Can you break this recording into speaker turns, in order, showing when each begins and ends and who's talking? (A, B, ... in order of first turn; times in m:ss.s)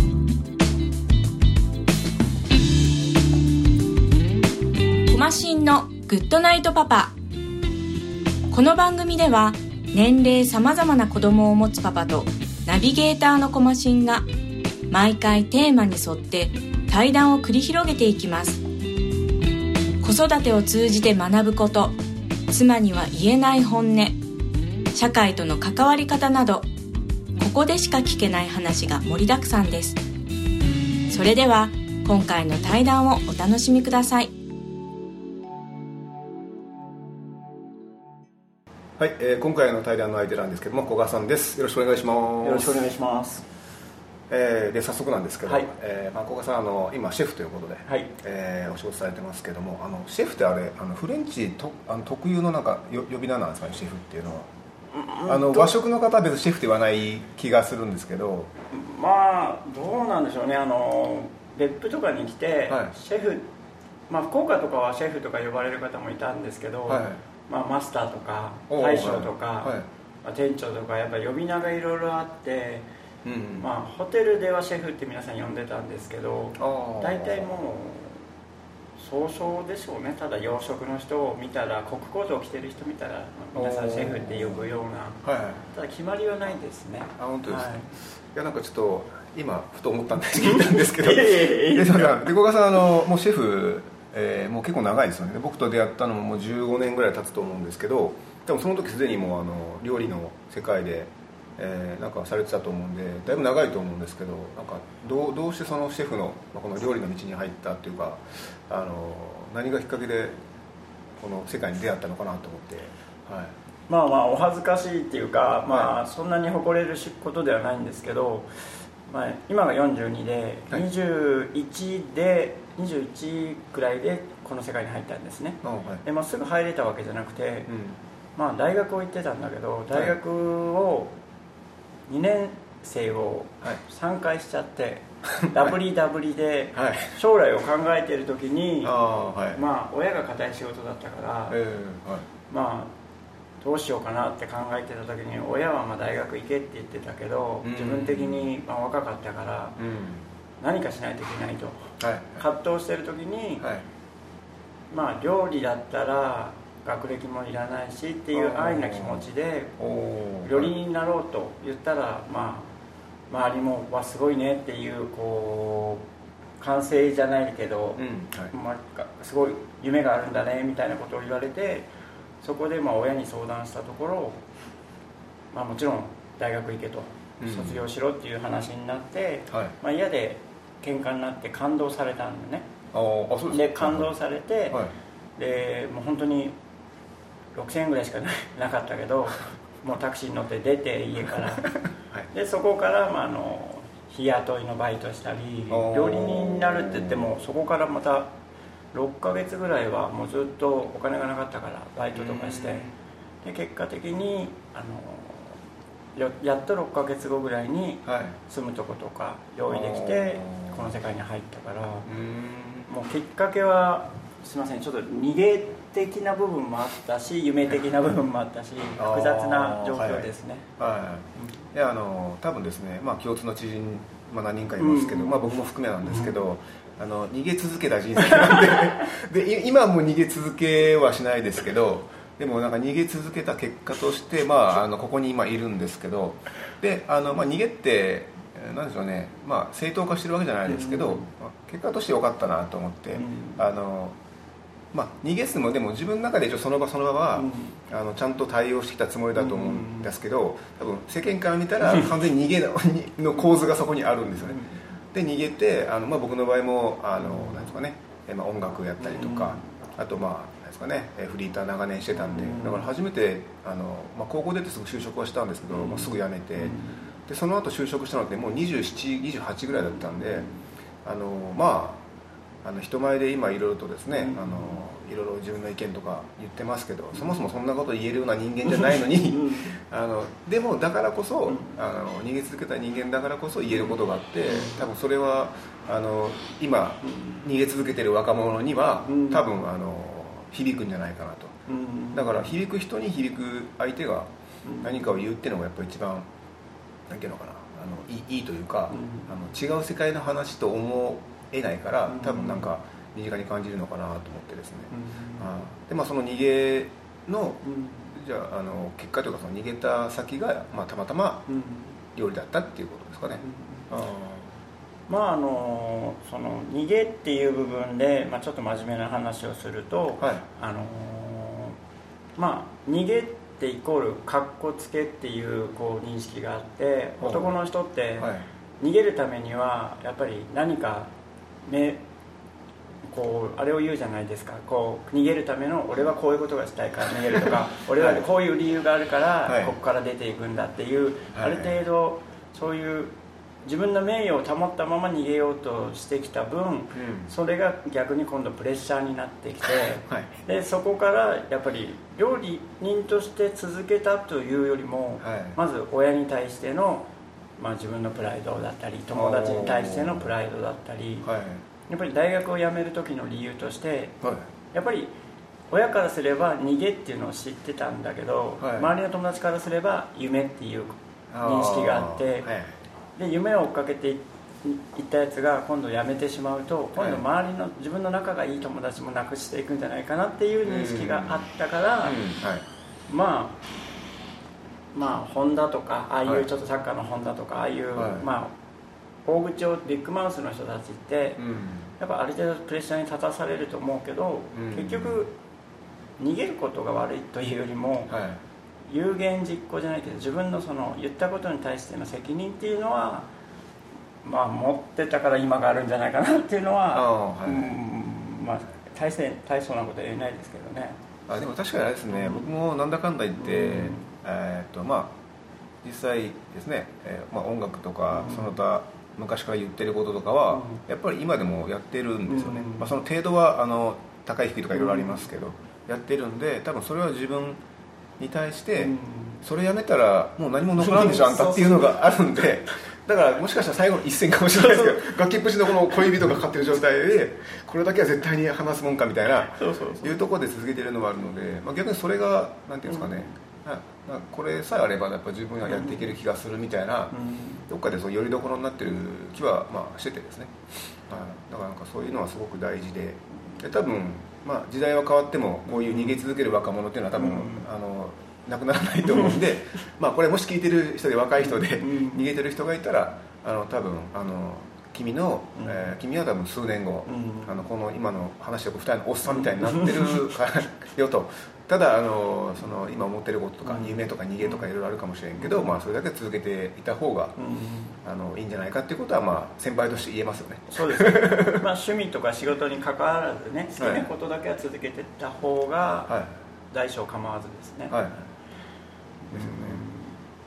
0:05.1-0:07.1 A
0:08.5-0:14.3 A
0:14.9-0:18.6 A
0:20.0-0:22.0 A
0:22.5-0:24.2 A
0:24.9-0:26.7 A
0:27.4-0:30.0 A
0:31.1-0:34.3 A
0:39.0-0:42.8 B
0:42.4-0:43.4 C
0:44.3-0:54.5 B
0:45.5-0:45.7 C
0:54.9-0:55.7 C
0:55.3-0:58.5 B
0:58.7-1:03.4 C
1:02.7-1:02.9 B
1:04.1-1:12.9 C
1:06.9-1:07.2 B
1:08.7-1:09.9 B
1:13.2-1:13.7 B
1:13.6-1:18.2 C
1:16.6-1:17.6 B
1:19.0-1:27.9 C
1:23.6-1:24.7 B
1:25.2-1:25.6 B
1:27.2-1:50.4 B
1:30.4-1:32.2 C
1:51.2-1:53.6 B
1:53.9-2:07.7 C
2:05.6-2:06.0 B
2:07.7-2:08.0 B
2:08.4-2:11.2 C
2:12.1-2:19.0 C
2:15.4-2:15.8 B
2:16.8-2:17.2 B
2:18.8-2:19.6 B
2:19.5-2:21.6 C
2:21.5-2:22.3 B
2:22.5-2:22.9 C
2:23.6-2:29.8 C
2:27.6-2:28.5 B
2:29.8-2:30.3 B
2:30.6-2:33.6 C
2:32.0-2:32.4 B
2:33.6-2:33.8 B
2:34.9-2:39.8 C
2:38.3-2:39.3 B
2:39.8-2:40.7 B
2:40.4-2:42.7 C
2:43.3-2:46.0 C
2:46.6-2:51.9 C
2:48.0-2:48.5 B
2:52.4-2:54.4 C
2:55.5-3:02.7 C
2:57.4-2:57.8 B
3:02.9-3:04.1 B
3:03.5-3:04.8 C
3:05.4-3:06.6 C
3:07.6-3:11.7 C
3:11.6-3:12.3 B
3:12.3-3:18.3 C
3:15.7-3:17.3 B
3:18.9-3:22.9 C
3:22.1-3:22.9 B
3:23.4-3:25.6 C
3:26.2-3:32.1 C
3:28.1-3:28.4 B
3:29.7-3:30.9 B
3:32.1-3:32.9 B
3:32.9-3:40.7 C
3:39.0-4:04.2 B
3:44.8-3:46.3 C
3:48.3-3:48.8 C
4:00.7-4:01.3 C
4:03.2-4:03.6 C
4:04.9-4:14.6 B
4:07.4-4:07.8 C
4:09.3-4:10.1 C
4:14.4-4:14.7 C
4:15.1-4:26.8 B
4:19.0-4:19.6 C
4:22.2-4:22.9 C
4:25.7-4:27.0 C
4:27.3-4:30.5 B
4:30.0-4:30.6 C
4:31.0-4:32.0 B
4:32.6-4:51.6 B
4:34.1-4:34.8 C
4:38.7-4:39.7 C
4:41.5-4:41.7 C
4:44.5-4:44.8 C
4:47.0-4:47.5 C
4:49.0-4:49.6 C
4:51.7-4:52.5 C
4:52.1-4:54.3 B
4:54.6-4:55.2 C
4:54.8-4:56.3 B
4:57.1-5:11.5 B
4:58.9-4:59.3 C
5:02.1-5:02.7 C
5:04.9-5:05.5 C
5:07.6-5:08.1 C
5:11.5-5:12.0 C
5:12.2-5:14.5 B
5:13.4-5:13.9 C
5:15.1-5:21.8 C
5:20.2-5:20.4 B
5:22.4-5:31.1 C
5:27.2-5:27.5 B
5:28.2-5:28.5 B
5:31.7-5:32.0 C
5:33.1-5:43.1 C
5:37.3-5:38.2 B
5:39.5-5:39.7 B
5:41.3-5:41.7 B
5:43.6-6:01.3 C
5:46.9-5:47.3 B
5:55.2-5:55.6 B
5:59.1-6:00.3 B
6:01.2-6:01.6 B
6:01.9-6:04.2 C
6:04.2-6:04.5 B
6:04.7-6:05.1 C
6:05.7-6:12.5 C
6:08.6-6:08.9 B
6:11.3-6:12.8 B
6:13.2-6:22.2 C
6:17.0-6:17.2 B
6:20.6-6:21.4 B
6:22.0-6:22.6 B
6:23.1-6:23.6 C
6:24.9-6:28.5 C
6:28.0-6:28.3 B
6:29.3-6:31.4 C
6:31.4-6:31.9 B
6:32.0-6:35.3 C
6:34.5-6:35.2 B
6:36.2-6:38.1 C
6:38.1-6:38.4 B
6:38.9-6:43.3 C
6:44.2-6:51.0 C
6:46.9-6:47.8 B
6:51.3-6:55.1 B
6:52.1-6:52.5 C
6:53.4-6:54.1 C
6:55.8-7:07.6 B
6:58.1-6:58.5 C
7:00.5-7:00.8 C
7:02.3-7:02.9 C
7:04.7-7:05.2 C
7:08.2-7:27.1 B
7:08.8-7:09.4 C
7:10.8-7:11.8 C
7:14.6-7:15.0 C
7:15.9-7:16.2 C
7:19.5-7:20.2 C
7:22.9-7:23.3 C
7:25.7-7:26.1 C
7:27.1-7:27.7 C
7:27.7-7:57.4 B
7:35.7-7:36.2 C
7:37.2-7:37.7 C
7:39.1-7:39.4 C
7:41.4-7:42.2 C
7:45.6-7:45.8 C
7:47.1-7:47.6 C
7:49.3-7:50.2 C
7:53.6-7:54.7 C
7:55.4-7:55.8 C
7:57.4-7:58.0 C
7:58.0-8:01.6 B
8:00.7-8:06.1 C
8:03.8-8:04.1 B
8:06.1-8:06.3 B
8:06.7-8:08.0 C
8:07.9-8:08.3 B
8:09.2-8:10.2 C
8:09.3-8:09.8 B